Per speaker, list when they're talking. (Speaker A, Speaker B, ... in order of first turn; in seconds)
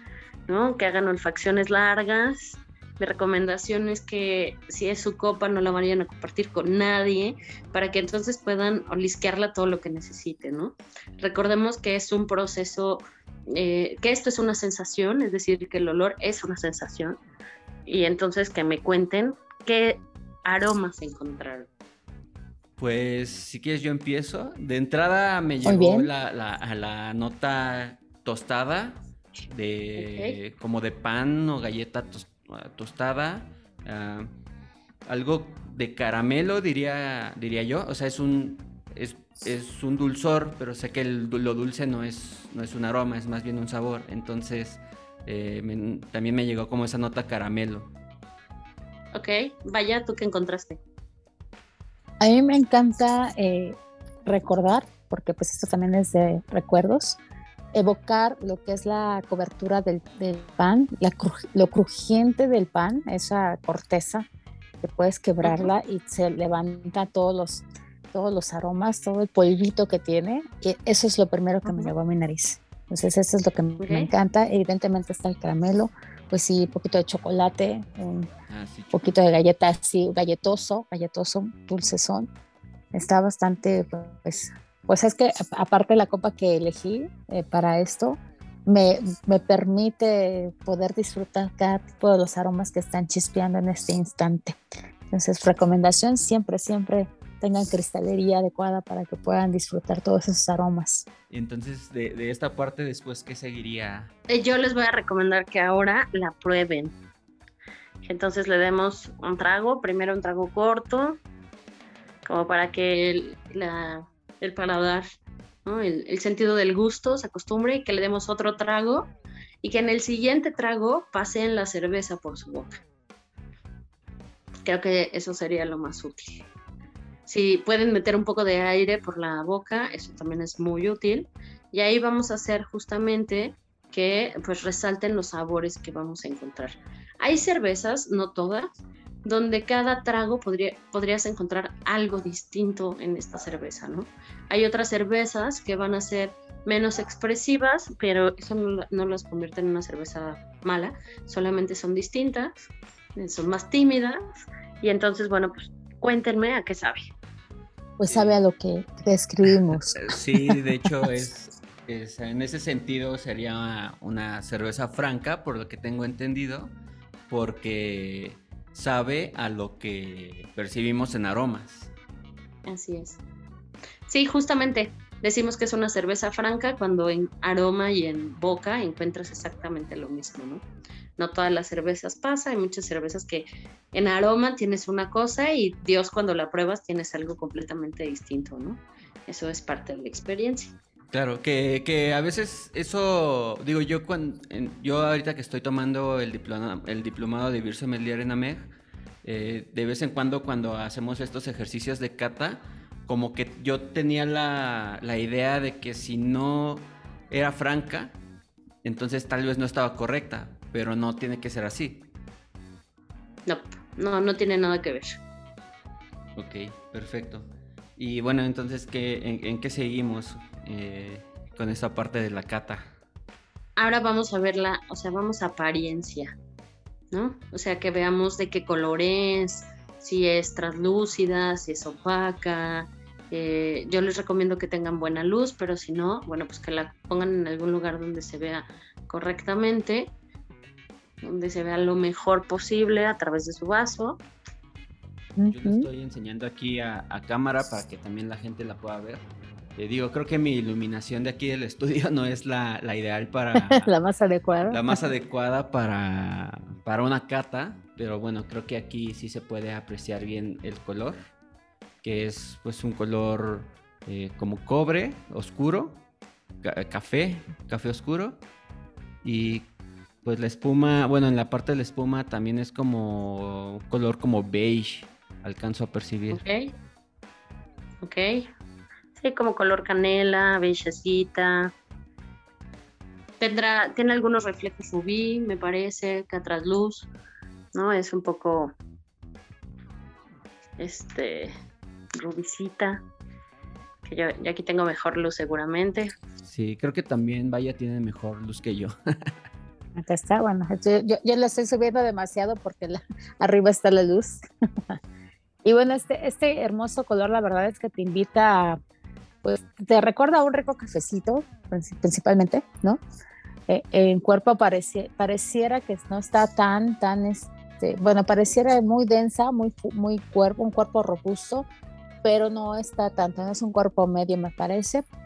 Speaker A: 0.5-17.2, 17.9-21.7, 30.0-30.4, 49.1-50.8, 65.4-65.7, 71.7-71.9, 73.8-74.1, 104.3-107.0, 108.0-111.2, 112.3-115.0, 115.7-122.8, 124.7-126.4, 127.3-138.7, 139.2-154.2, 154.8-157.1, 172.7-173.2, 174.1-180.7, 181.2-190.7, 213.5-215.2, 223.8-226.4, 227.1-240.1, 241.2-244.2, 276.3-276.7, 278.0-278.5, 279.2-281.7, 283.4-287.1, 287.7-288.7, 290.8-291.5, 292.2-293.1, 294.0-296.1
Speaker B: 22.8-34.3, 35.1-47.9, 78.5-79.2, 101.3-104.1, 158.1-158.4, 160.0-166.7, 167.3-171.9, 191.1-198.7, 199.2-208.2, 208.8-212.1, 216.4-222.9, 245.5-253.9, 254.7-261.2, 262.0-266.0, 266.6-268.4, 269.2-269.7, 270.2-276.4, 296.4-299.3
Speaker C: 25.6-26.1, 52.2-57.2, 57.7-64.3, 64.8-78.3, 78.9-82.3, 82.9-101.1, 158.0-161.3, 245.4-245.9, 253.6-255.0, 299.9-305.0, 305.6-308.8, 309.4-313.0, 313.7-321.7, 322.2-325.1